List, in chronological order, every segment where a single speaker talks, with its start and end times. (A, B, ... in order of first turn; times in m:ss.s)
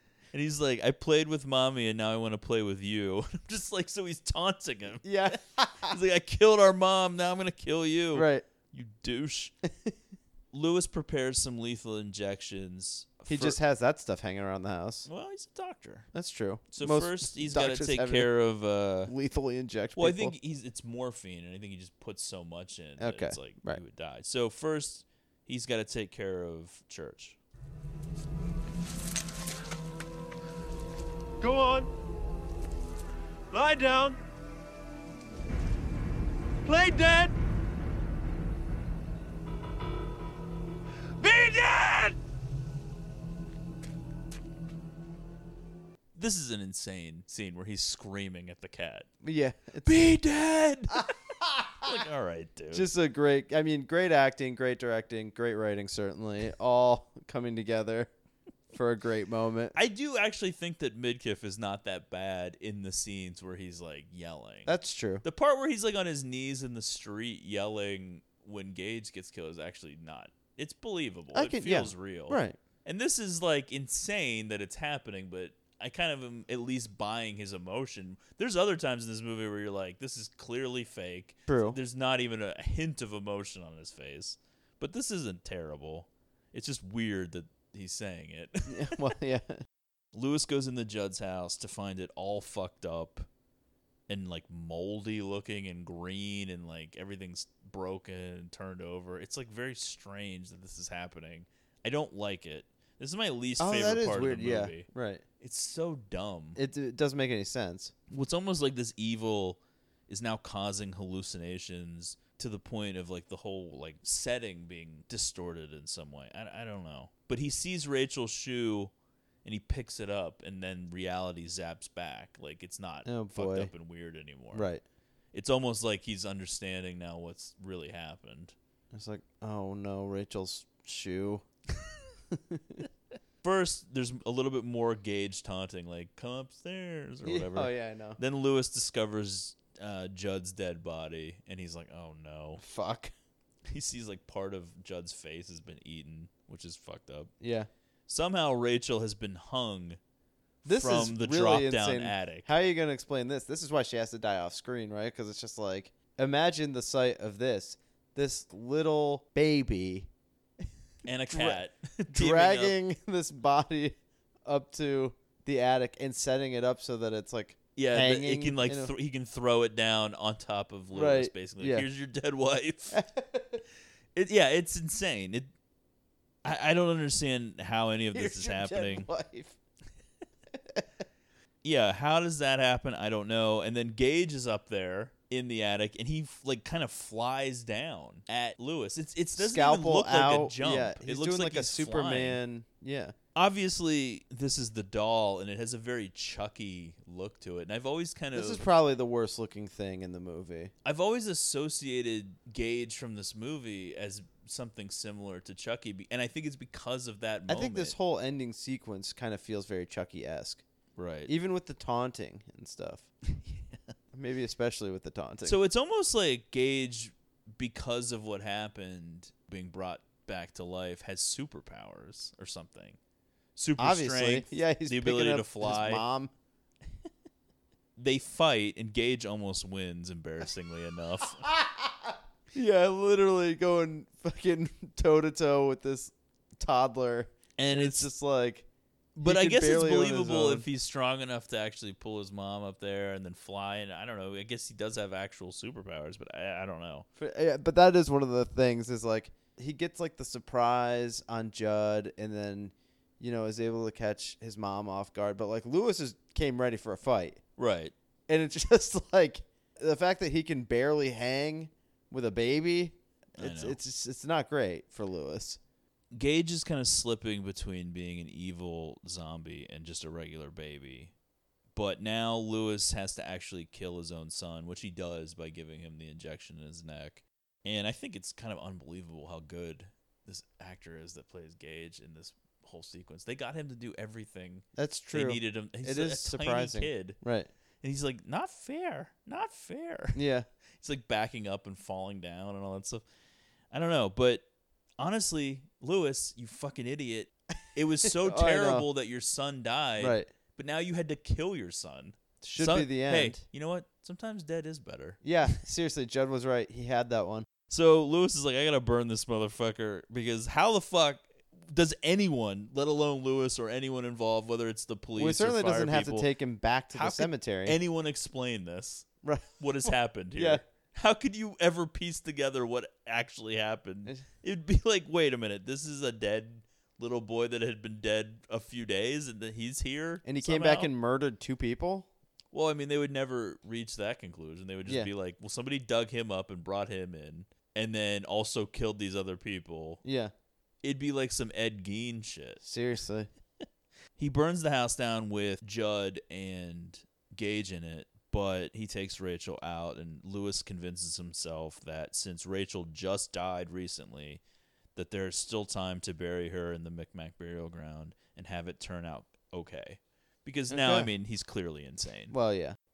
0:00.3-0:09.5 A
0:05.0-0:06.0 B
0:08.1-0:08.4 B
0:10.5-0:13.6 A
0:13.3-0:15.1 B
0:15.0-0:16.1 A
0:16.1-0:18.3 B
0:16.7-0:19.1 A
0:19.0-0:20.4 B
0:20.0-0:27.4 A
0:23.0-0:23.8 B
0:31.4-0:31.9 C
0:33.5-0:34.2 C
0:36.6-0:37.3 C
0:41.2-0:42.1 C
0:46.2-0:49.1 A
0:49.2-0:50.0 B
0:49.8-0:51.1 A
0:51.0-0:51.9 B
0:51.8-0:52.9 A
0:52.7-0:58.1 B
0:58.7-0:59.7 B
0:59.7-1:29.0 A
1:04.6-1:05.2 B
1:11.3-1:12.6 B
1:21.5-1:21.8 B
1:28.7-1:29.6 B
1:30.1-1:33.3 A
1:34.1-1:44.9 A
1:43.6-1:45.2 B
1:45.4-1:46.6 A
1:46.6-1:47.9 B
1:48.1-1:58.9 A
1:59.4-2:04.7 A
2:03.0-2:03.7 B
2:04.5-2:04.8 B
2:05.3-2:08.5 A
2:08.9-2:11.4 B
2:12.3-2:12.8 B
2:13.4-2:22.6 A
2:17.2-2:18.2 B
2:22.6-2:23.1 B
2:23.7-2:27.3 A
2:27.4-2:27.7 B
2:28.1-2:30.0 A
2:30.6-2:32.5 A
2:30.6-2:40.1 B
2:41.0-2:42.8 A
2:41.3-2:48.9 B
2:47.8-2:53.0 A
2:50.9-2:51.9 B
2:52.9-2:53.6 B
2:54.1-2:55.5 A
2:56.4-2:59.1 A
2:58.1-2:59.5 B
3:01.6-3:12.4 A
3:09.4-3:13.1 B
3:13.3-3:18.7 A
3:18.3-3:20.7 B
3:20.8-3:28.0 A
3:27.5-3:30.6 B
3:31.0-3:31.3 A
3:31.3-3:33.1 B
3:33.3-3:33.9 A
3:34.1-3:35.6 B
3:35.4-3:43.0 A
3:43.6-3:46.0 A
3:43.8-3:46.3 B
3:48.0-3:51.4 A
3:51.4-3:58.6 B
3:57.6-3:58.1 A
3:59.2-4:07.0 A
3:59.2-4:00.7 B
4:07.2-4:17.4 B
4:17.6-4:17.9 A
4:18.3-4:25.6 B
4:23.4-4:23.8 A
4:26.1-4:31.1 A
4:31.7-4:47.2 A
4:44.7-4:47.5 B
4:47.8-4:50.2 A
4:50.1-4:50.5 B
4:50.8-4:53.0 A
4:53.7-4:54.4 A
4:55.0-5:05.2 A
4:58.0-4:58.9 B
5:00.0-5:00.3 B
5:02.4-5:03.4 B
5:05.2-5:07.5 B
5:07.7-5:16.3 A
5:15.2-5:17.8 B
5:16.9-5:19.1 A
5:19.2-5:19.5 B
5:19.6-5:30.9 A
5:20.3-5:20.6 B
5:30.2-5:32.1 B
5:32.5-5:40.0 A
5:40.0-5:40.3 B
5:40.8-5:42.6 A
5:42.6-5:43.3 B
5:44.2-5:54.4 A
5:54.9-6:02.3 A
6:00.7-6:01.1 B
6:02.3-6:02.8 B